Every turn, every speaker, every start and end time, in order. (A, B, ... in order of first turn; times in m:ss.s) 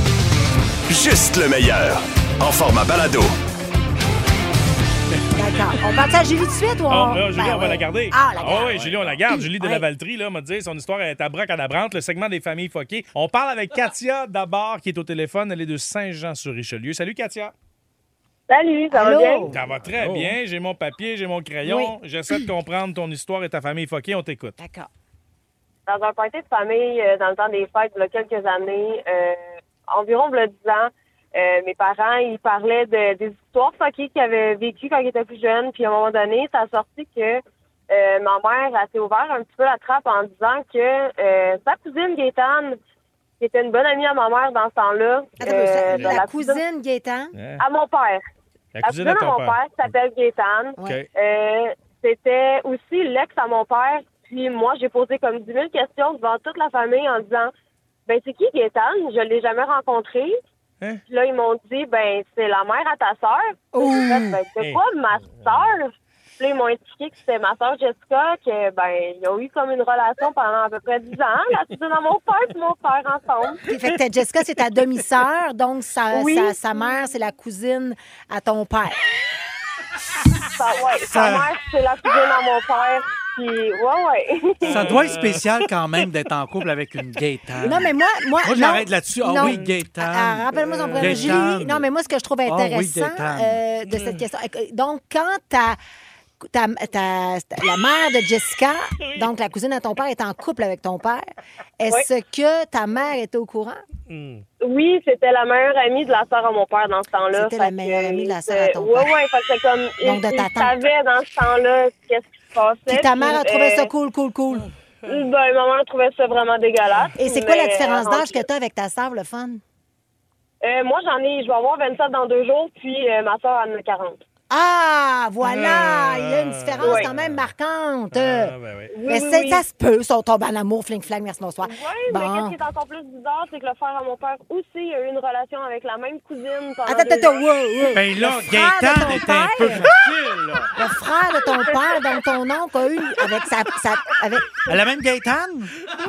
0:00.9-0:03.3 A
0:05.3-0:09.8 B
0:06.9-0:17.5 C
0:08.5-0:09.2 D
0:18.5-0:19.5 E
0:18.9-0:19.5 B
0:19.5-0:24.5 C
0:19.7-0:20.3 D
0:21.6-0:21.9 B
0:24.6-0:24.9 B
0:25.9-0:42.8 E
0:43.4-0:46.6 E
0:45.4-0:47.3 B
0:47.3-0:47.6 C
0:47.6-0:48.2 E
0:48.8-0:49.9 C
0:48.8-0:57.5 E
0:58.1-1:00.4 E
1:01.1-1:13.7 E
1:03.7-1:04.4 B
1:13.7-1:19.0 B
1:16.1-1:16.6 E
1:20.5-1:25.1 E
1:21.0-1:21.5 D
1:24.6-1:25.4 C
1:24.7-1:27.9 D
1:27.6-1:35.8 B
1:28.4-1:31.8 D
1:31.0-1:31.3 C
1:32.4-1:33.6 D
1:36.4-1:41.3 B
1:41.8-1:43.8 B
1:44.1-1:44.4 C
1:44.6-1:53.9 E
1:47.3-1:49.2 B
1:50.0-1:50.7 B
1:52.9-1:54.7 B
1:55.0-1:58.4 E
1:57.2-1:59.6 B
2:00.6-2:04.2 E
2:04.5-2:08.5 B
2:05.4-2:07.4 C
2:06.8-2:07.1 E
2:08.1-2:08.9 C
2:08.9-2:09.6 E
2:09.0-2:12.6 B
2:11.6-2:17.4 E
2:16.8-2:19.9 B
2:17.9-2:20.7 D
2:20.8-2:24.7 B
2:24.7-2:25.7 D